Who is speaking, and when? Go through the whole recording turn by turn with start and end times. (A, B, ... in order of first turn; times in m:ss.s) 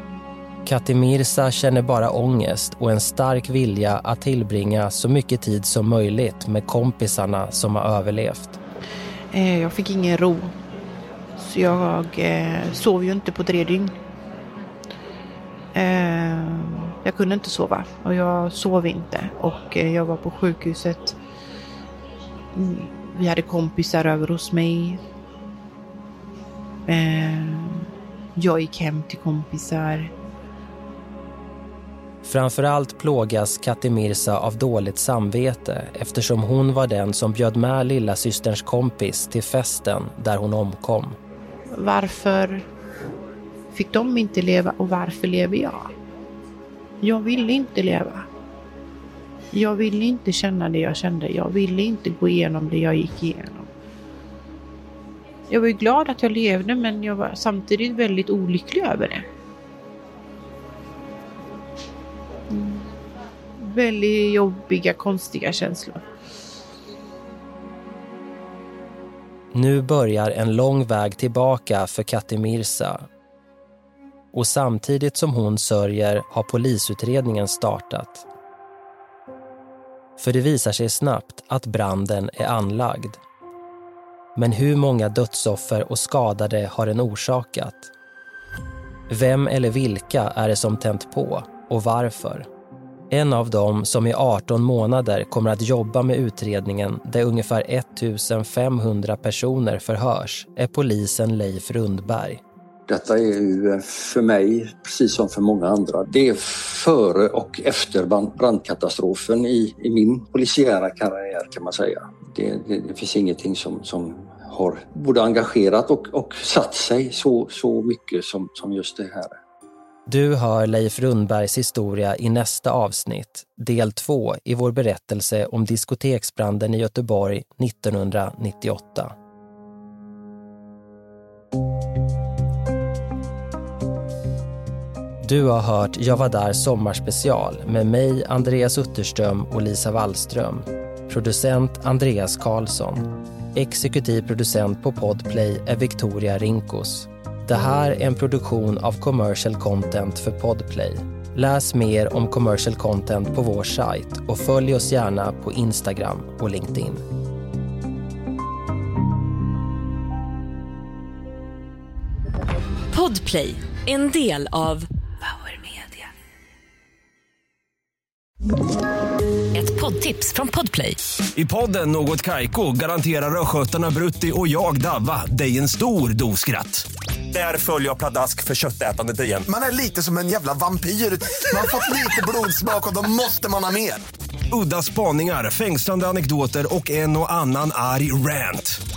0:00.6-0:08.6 A
0:09.3-0:10.5 B
0:11.4-0:13.9 B
0:15.7-0:21.2 B
0:22.5-0:25.0 B
0:26.9-0:30.1 B
0:32.2-0:41.2 A
0:41.7-0:42.6 B
0:43.7-0:45.9 B
0:47.0-0:48.3 B
0:49.5-0:53.7 B
0:55.5-0:59.2 B
1:02.5-1:02.9 B
1:03.6-1:06.0 B
1:09.5-1:13.1 A
1:14.3-1:18.2 A
1:20.2-1:23.2 A
1:24.3-1:27.9 A
1:29.1-1:32.5 A
1:33.1-1:42.4 A
1:42.9-1:59.4 C
2:00.1-2:09.1 A
2:15.2-2:37.0 A
2:42.9-2:46.1 D
2:49.5-2:51.0 D
2:51.3-2:59.4 E
2:59.4-3:04.0 F
3:04.5-3:08.8 E